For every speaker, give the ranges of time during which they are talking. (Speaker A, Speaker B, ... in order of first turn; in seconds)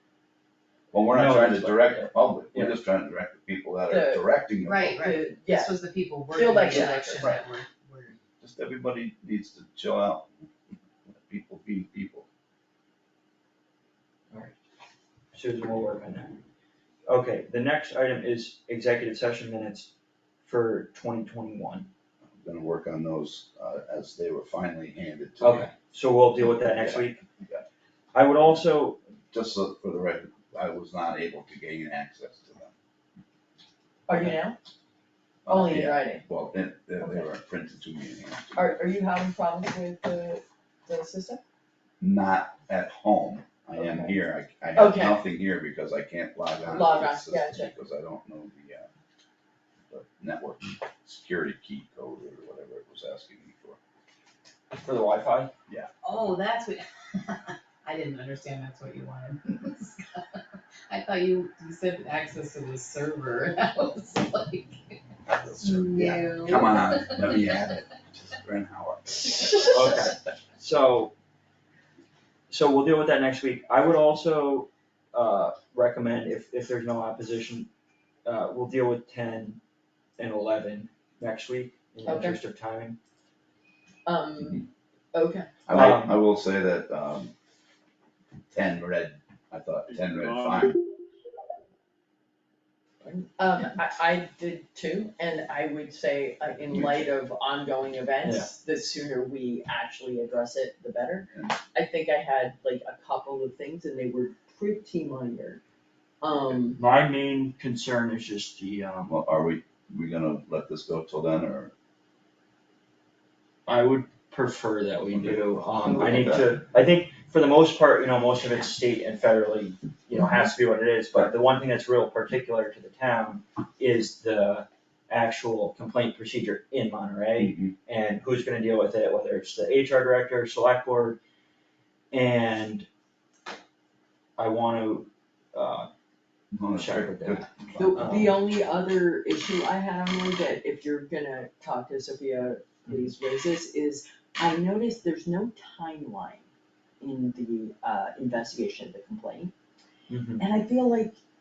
Speaker A: 0.9-5.0, 8.4-10.3, 11.1-12.3, 22.3-25.7, 26.6-27.6, 29.3-32.7, 35.5-38.8, 42.0-48.9, 49.9-53.8, 65.3-69.3, 85.7-87.3, 88.5-90.8, 96.7-97.0, 109.1-111.7, 115.1-116.5, 127.4-127.7, 136.5-138.3
Speaker B: 1.1-2.8, 15.3-16.4, 17.1-19.9, 20.4-21.9, 25.4-27.2, 28.1-29.0, 54.8-55.5, 69.7-71.1, 72.5-77.7, 78.2-79.6, 80.2-83.0, 85.7-86.2, 98.2-98.5, 106.8-109.1, 113.7-131.2, 132.1-132.9, 134.4-135.9, 136.8-138.4, 150.1-150.4
Speaker C: 3.9-4.3, 5.0-5.8, 6.3-7.4, 34.1-34.6, 35.5-36.2, 38.5-41.4, 43.8-44.2, 44.8-45.2, 46.6-47.7, 82.0-82.4, 84.0-85.5, 93.0-105.6, 106.2-106.8, 137.8-146.5, 147.0-149.5, 150.4-151.2
Speaker D: 4.6-8.2, 56.0-65.0, 65.6-67.7